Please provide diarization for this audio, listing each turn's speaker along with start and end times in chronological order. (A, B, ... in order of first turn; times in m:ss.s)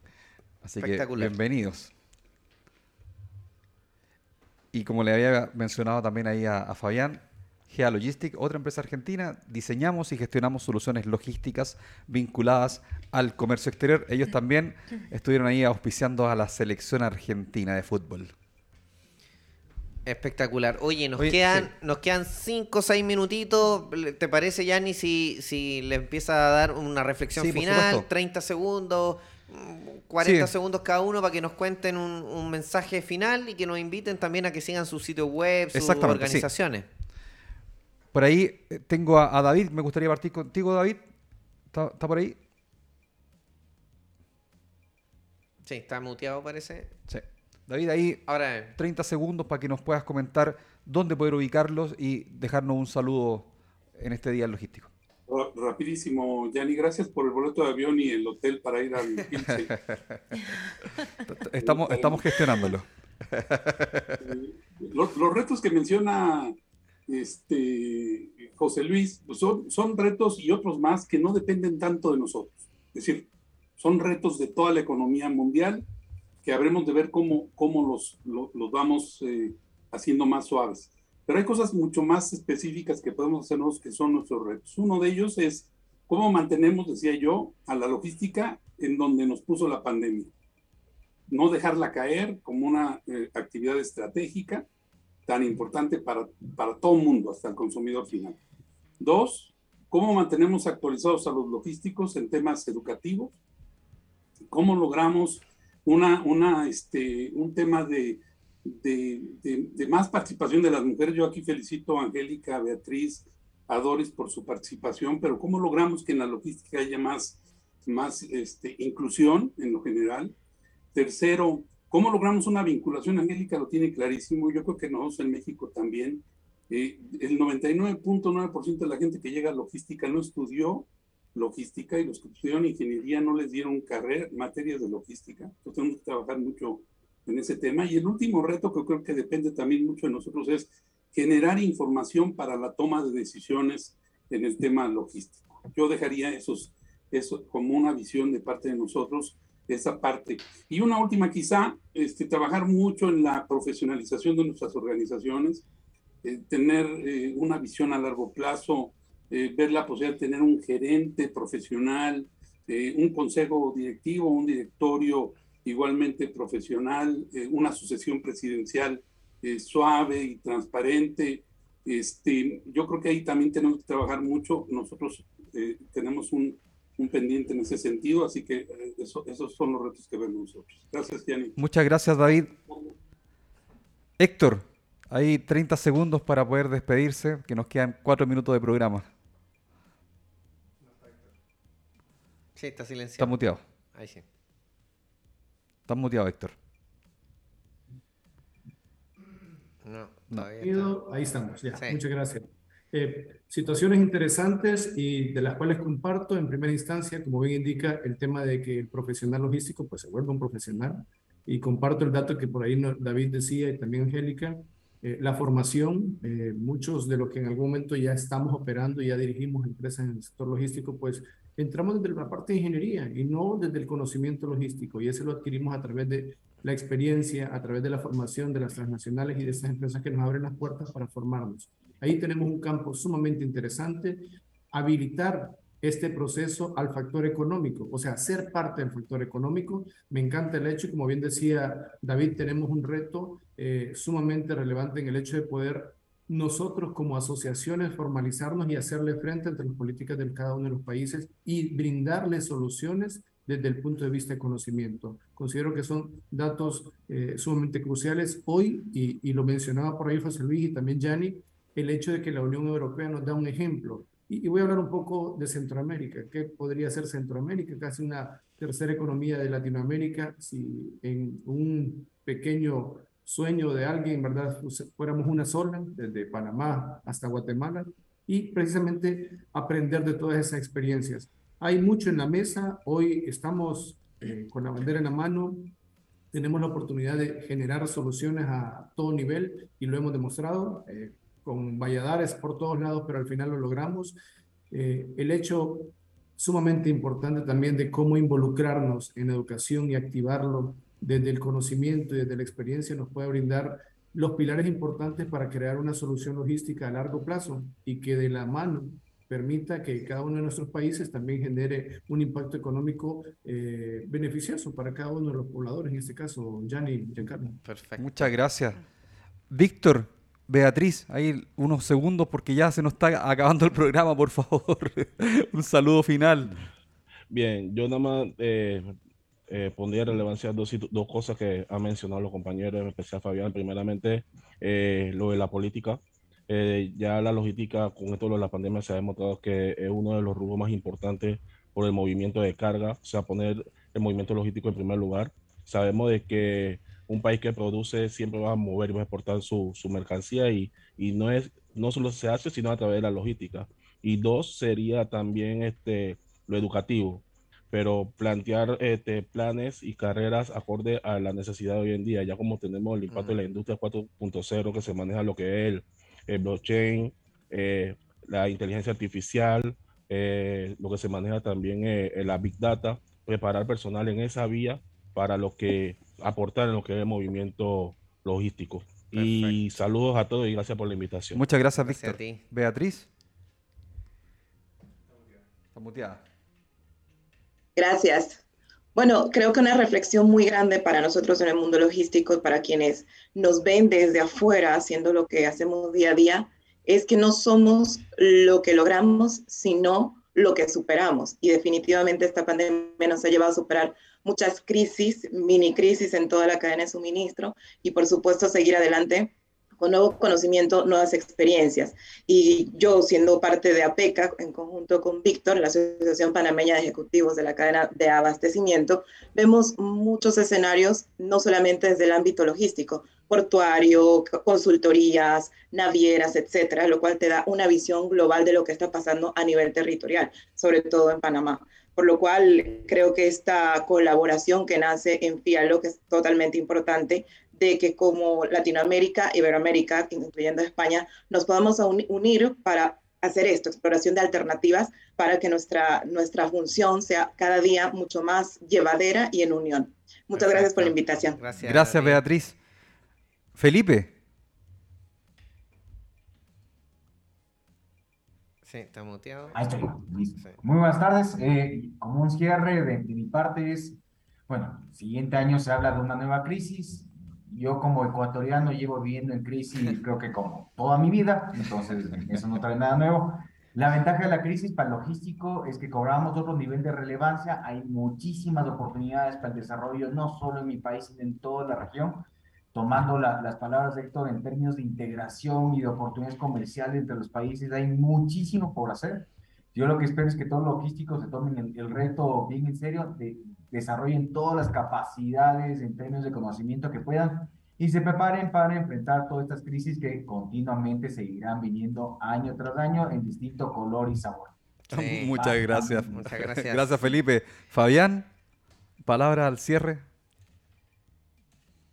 0:00.6-0:01.9 A
0:00.8-0:01.4 B
0:04.7-0:18.3 A
0:20.0-0:36.9 B
0:21.2-0:21.7 A
0:27.4-0:28.0 A
0:30.2-0:30.5 A
0:35.7-0:36.5 A
0:38.1-0:41.0 A
0:41.7-0:42.4 A
0:45.6-0:47.0 B
0:47.1-0:54.9 A
0:48.2-0:48.7 B
0:55.3-0:59.7 C
1:01.2-1:02.9 A
1:01.6-1:02.2 C
1:04.2-1:06.5 C
1:07.1-1:15.9 C
1:16.4-1:30.3 C
1:31.3-1:34.6 C
1:35.2-1:38.4 C
1:39.0-1:43.4 C
1:44.5-2:00.3 C
2:00.9-2:35.6 C
2:36.2-3:01.6 C
3:01.6-3:02.5 A
3:02.7-3:02.9 C
3:04.2-3:09.1 A
3:12.6-3:14.2 B
3:13.2-3:13.6 A
3:15.9-3:16.5 A
3:19.8-3:20.9 B
3:20.5-4:45.7 D
4:46.3-4:54.2 D
4:54.7-5:17.6 D
5:17.6-5:18.3 B
5:18.0-5:18.8 A
5:19.5-5:26.5 A
5:27.3-5:28.9 E
5:29.5-6:21.4 E
6:03.1-6:03.4 B
6:19.1-6:19.6 B
6:21.3-6:23.1 A
6:21.8-6:22.4 B
6:25.7-6:26.2 A
6:27.8-6:28.4 F
6:28.9-7:31.4 F
7:30.4-7:32.2 B
7:31.6-7:32.6 A
7:33.6-7:34.1 A
7:38.6-7:39.8 B
7:39.5-8:24.5 G
8:24.9-8:25.4 B
8:24.9-8:28.3 A
8:25.2-8:26.2 G
8:26.1-8:27.1 B
8:29.0-8:30.0 A